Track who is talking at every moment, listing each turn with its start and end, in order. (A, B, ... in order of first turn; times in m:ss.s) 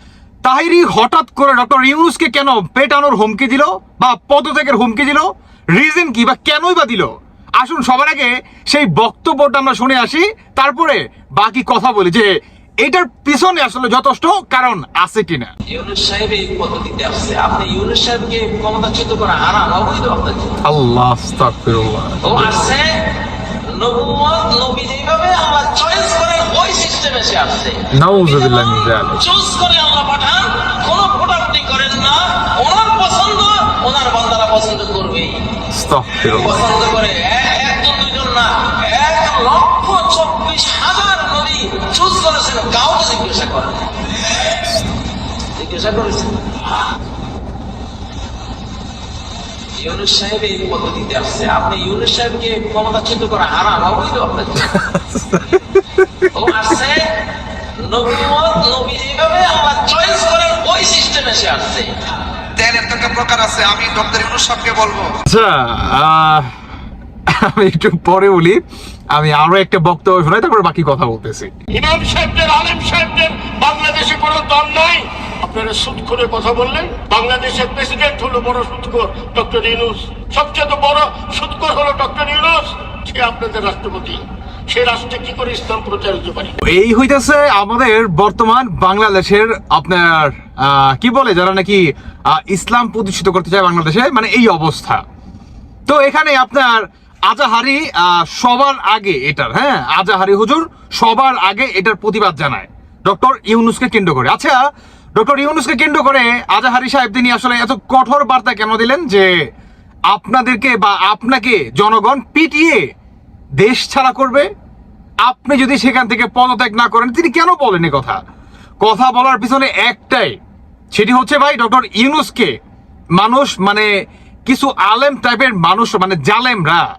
0:00.4-0:12.3 A
0:12.8-0:15.5 A
0:15.7-0:20.6 B
0:20.6-0:22.7 A
0:22.2-0:23.1 B
0:23.6-0:35.4 B
0:27.9-0:29.2 A
0:35.7-0:36.6 A
0:36.3-0:44.0 B
0:45.6-0:46.6 B
0:49.8-0:54.7 B
0:54.6-0:56.4 A
0:56.3-0:57.1 B
0:57.8-1:02.0 B
1:02.6-1:05.1 C
1:05.3-1:06.5 A
1:07.4-1:08.6 A
1:09.1-1:11.5 A
1:11.7-1:26.5 D
1:26.7-1:35.0 A
1:35.9-1:44.6 A
1:45.2-1:49.3 A
1:50.1-1:52.8 A
1:53.6-1:54.5 A
1:55.2-1:58.2 A
1:58.8-2:00.4 A
2:00.9-2:02.5 A
2:03.2-2:03.9 A
2:04.5-2:06.8 A